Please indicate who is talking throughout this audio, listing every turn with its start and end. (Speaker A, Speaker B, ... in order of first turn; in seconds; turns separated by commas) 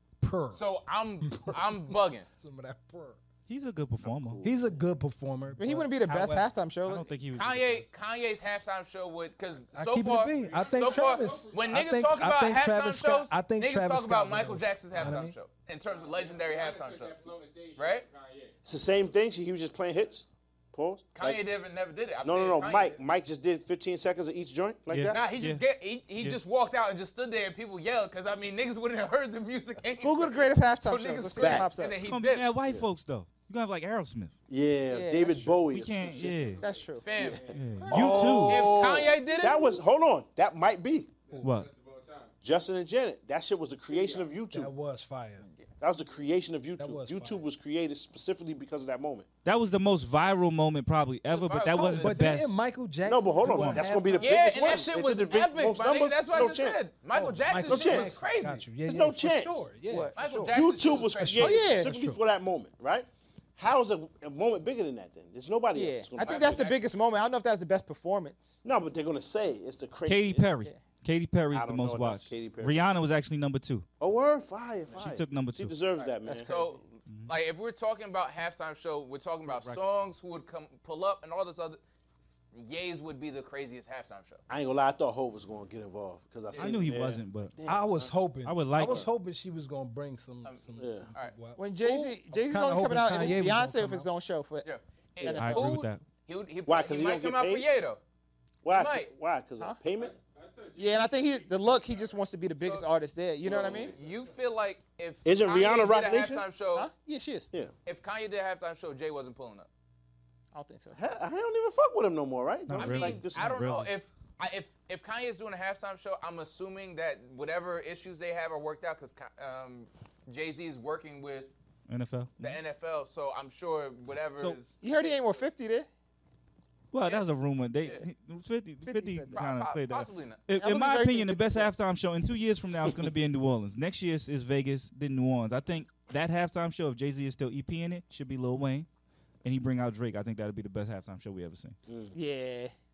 Speaker A: 0.2-0.6, Speaker B: 0.5-2.3, Speaker A: 1.2-3.2, Speaker C: 3.5-4.4, Speaker D: 4.0-4.8, Speaker A: 4.4-6.5, Speaker E: 5.6-7.1, Speaker C: 6.8-7.9, Speaker B: 7.3-17.2, Speaker A: 9.7-15.4, Speaker F: 10.2-11.6, Speaker F: 15.9-18.6, Speaker B: 17.8-18.1, Speaker D: 18.6-21.4, Speaker B: 21.1-23.0, Speaker D: 22.2-25.2, Speaker C: 24.9-25.6, Speaker B: 25.1-32.5, Speaker E: 30.0-32.0, Speaker D: 31.4-31.7, Speaker C: 32.0-34.4, Speaker D: 34.5-36.5, Speaker E: 34.9-35.6, Speaker C: 35.7-36.6, Speaker F: 35.9-38.1, Speaker E: 36.6-37.2, Speaker B: 37.0-39.8, Speaker D: 37.2-41.1, Speaker C: 37.5-38.8, Speaker E: 37.8-39.8, Speaker F: 41.3-42.3, Speaker C: 41.4-41.7, Speaker D: 42.4-44.7, Speaker F: 43.9-44.3, Speaker A: 44.5-45.5, Speaker D: 45.8-49.3, Speaker A: 46.8-47.5, Speaker C: 49.5-52.6, Speaker B: 51.3-52.4, Speaker A: 51.8-54.5, Speaker D: 53.0-56.9, Speaker C: 53.5-53.9, Speaker B: 54.2-58.6, Speaker A: 57.1-60.6, Speaker D: 57.7-58.2, Speaker D: 58.9-59.7, Speaker E: 59.9-60.2, Speaker B: 60.1-61.7, Speaker D: 60.5-66.7, Speaker A: 61.1-62.2, Speaker E: 61.4-61.9, Speaker E: 65.7-68.6, Speaker B: 66.2-66.9, Speaker D: 68.6-70.5, Speaker C: 70.1-73.9, Speaker D: 71.5-72.8, Speaker D: 74.0-76.5, Speaker C: 75.0-75.8, Speaker B: 76.0-81.8, Speaker E: 76.2-76.8, Speaker C: 77.1-77.3, Speaker C: 79.5-79.8, Speaker B: 82.5-84.4, Speaker D: 84.5-88.1, Speaker B: 86.5-86.8, Speaker C: 86.6-87.5, Speaker A: 87.7-94.1, Speaker C: 88.5-89.1, Speaker D: 88.8-89.1, Speaker B: 90.4-91.3, Speaker D: 90.8-91.1, Speaker E: 91.6-95.8, Speaker B: 94.6-98.0, Speaker C: 95.3-96.0, Speaker D: 96.7-97.7, Speaker D: 98.6-100.2, Speaker B: 98.7-99.1, Speaker F: 99.9-102.2, Speaker E: 100.8-103.9, Speaker B: 102.6-102.9, Speaker F: 103.4-104.4, Speaker B: 103.4-106.9, Speaker D: 103.5-103.9, Speaker D: 105.2-106.5, Speaker E: 106.8-107.5, Speaker B: 107.8-109.7, Speaker E: 110.5-111.0, Speaker D: 110.9-113.5, Speaker C: 112.7-113.9, Speaker B: 112.8-121.5, Speaker C: 121.9-122.6, Speaker B: 122.4-125.4, Speaker E: 124.8-125.9, Speaker C: 126.9-138.9, Speaker E: 128.9-129.4, Speaker B: 129.3-130.4, Speaker E: 130.5-131.7, Speaker C: 139.4-141.8, Speaker D: 141.9-142.2, Speaker E: 142.1-142.7